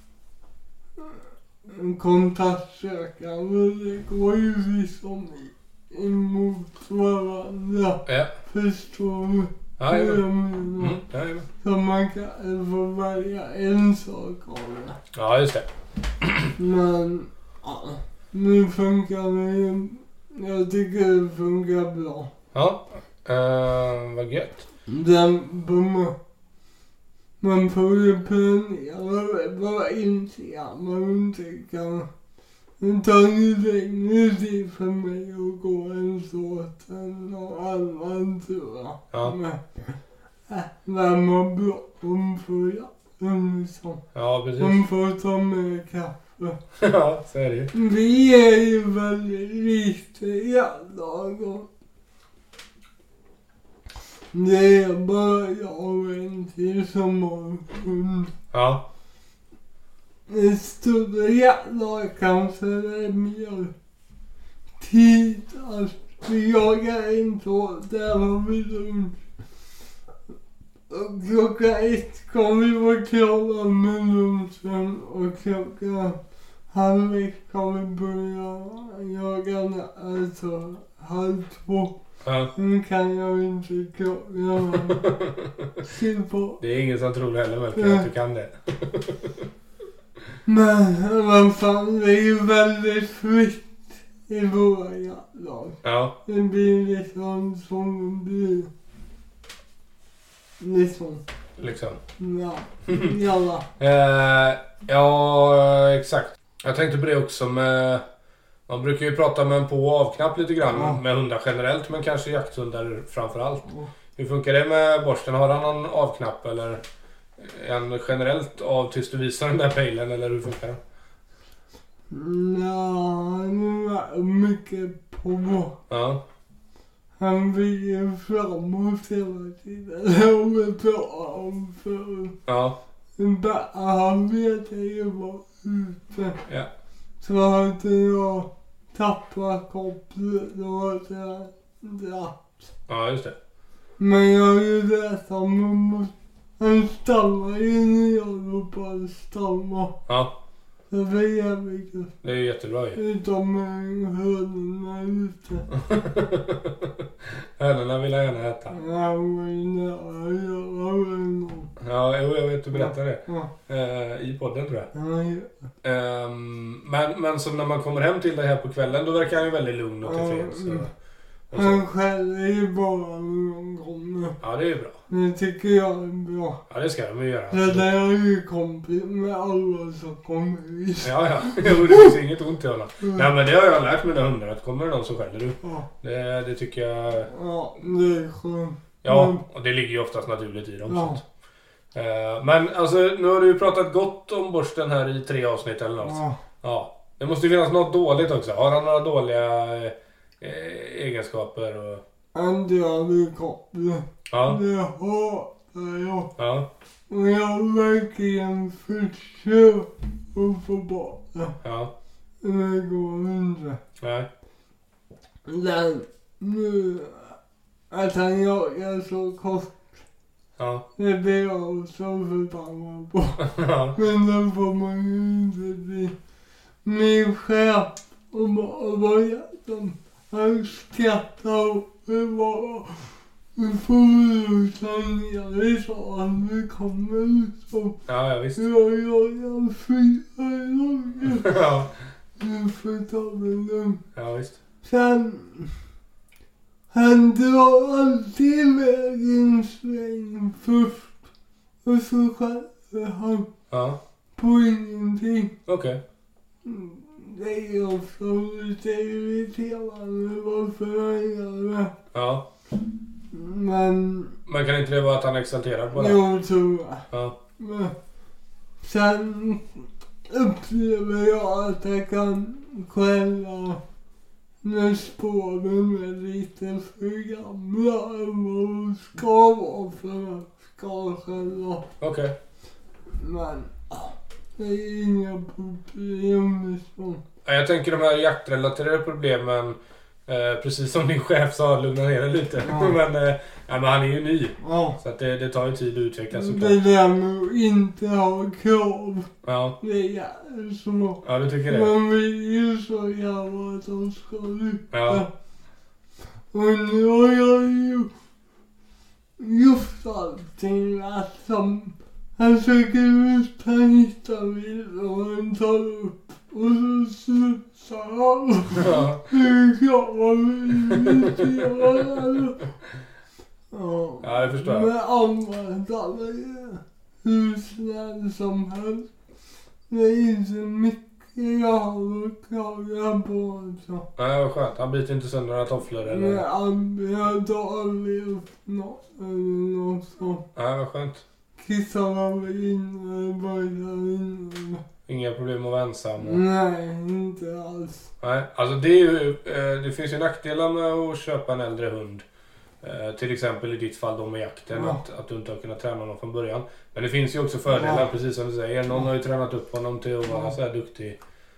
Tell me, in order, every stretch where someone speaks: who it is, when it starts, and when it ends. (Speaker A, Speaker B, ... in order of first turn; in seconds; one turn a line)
Speaker A: 1.0-11.0
Speaker B: 8.1-8.3
Speaker B: 9.8-11.5
Speaker A: 11.6-15.0
Speaker B: 15.1-15.7
Speaker B: 16.2-16.5
Speaker A: 16.6-22.3
Speaker B: 22.5-24.6
Speaker A: 24.9-26.1
Speaker A: 27.4-32.1
Speaker A: 32.8-40.0
Speaker A: 40.5-44.0
Speaker B: 44.1-44.8
Speaker A: 44.6-46.6
Speaker B: 46.8-47.7
Speaker A: 47.7-51.7
Speaker A: 54.3-58.3
Speaker B: 58.5-58.8
Speaker A: 60.3-63.7
Speaker A: 64.8-69.2
Speaker A: 70.9-76.2
Speaker A: 76.7-82.0
Speaker B: 82.2-82.5
Speaker A: 82.5-85.1
Speaker B: 84.7-85.7
Speaker A: 85.8-86.6
Speaker B: 86.6-89.5
Speaker A: 87.8-88.1
Speaker A: 90.5-98.7
Speaker B: 95.8-96.1
Speaker A: 100.6-101.2
Speaker B: 101.6-102.0
Speaker A: 102.2-103.7
Speaker B: 102.9-103.2
Speaker B: 103.8-108.0
Speaker B: 108.7-113.7
Speaker A: 110.7-111.0
Speaker A: 113.7-113.9
Speaker B: 114.2-116.8
Speaker B: 117.4-120.8
Speaker A: 122.1-125.8
Speaker B: 125.9-126.2
Speaker A: 127.2-132.4
Speaker B: 132.5-132.8
Speaker A: 133.2-136.4
Speaker A: 137.2-142.4
Speaker B: 142.9-143.4
Speaker A: 144.0-150.0
Speaker B: 150.1-150.3
Speaker A: 150.9-152.1
Speaker B: 152.2-153.0
Speaker A: 152.9-155.7
Speaker B: 155.7-158.8
Speaker A: 158.7-161.7
Speaker B: 161.8-164.9
Speaker A: 162.7-163.5
Speaker A: 164.9-165.5
Speaker B: 165.8-170.9
Speaker A: 170.0-170.9
Speaker B: 171.5-171.8
Speaker A: 171.5-174.4
Speaker B: 174.4-175.0
Speaker A: 175.1-176.6
Speaker B: 176.7-177.9
Speaker A: 177.5-182.2
Speaker B: 181.0-187.3
Speaker A: 187.3-189.4
Speaker B: 189.0-191.2
Speaker A: 190.9-191.2
Speaker B: 191.9-202.0
Speaker A: 196.0-196.4
Speaker A: 202.3-206.3
Speaker B: 204.3-204.6
Speaker B: 206.4-206.7
Speaker A: 207.1-211.6
Speaker B: 211.6-211.9
Speaker A: 212.4-213.8
Speaker B: 214.0-214.3
Speaker A: 215.5-217.4
Speaker A: 217.9-219.9
Speaker B: 220.6-220.8
Speaker A: 221.0-226.2
Speaker B: 223.4-224.0
Speaker A: 226.8-238.0
Speaker B: 238.1-238.6
Speaker A: 238.6-241.6
Speaker B: 241.2-241.9
Speaker A: 242.4-244.0
Speaker B: 244.2-244.6
Speaker A: 244.8-245.8
Speaker A: 246.9-251.2
Speaker A: 251.8-253.5
Speaker B: 253.7-254.0
Speaker A: 254.4-255.6
Speaker B: 255.7-256.0
Speaker A: 256.6-261.9
Speaker B: 262.1-262.4
Speaker A: 263.3-264.4
Speaker B: 264.5-266.2
Speaker A: 265.9-267.1
Speaker B: 267.1-267.4
Speaker A: 267.6-267.9
Speaker A: 268.8-273.8
Speaker A: 274.6-281.9
Speaker B: 282.0-282.4
Speaker A: 283.1-287.2
Speaker B: 287.4-296.8
Speaker A: 292.6-293.0
Speaker A: 294.6-295.0
Speaker A: 296.3-299.3
Speaker B: 299.4-299.8
Speaker A: 299.8-305.3
Speaker B: 301.2-301.9
Speaker B: 304.9-305.2
Speaker A: 306.5-308.1
Speaker A: 309.4-322.6
Speaker B: 318.7-319.2
Speaker B: 320.9-321.5
Speaker A: 323.7-329.1
Speaker B: 324.2-324.9
Speaker A: 329.9-334.1
Speaker B: 334.2-336.4
Speaker A: 336.1-340.4
Speaker B: 340.6-341.2
Speaker A: 341.6-344.8
Speaker B: 345.1-346.4
Speaker A: 346.2-348.1
Speaker B: 348.2-352.2
Speaker B: 352.8-361.2
Speaker A: 354.7-355.0
Speaker A: 357.7-358.1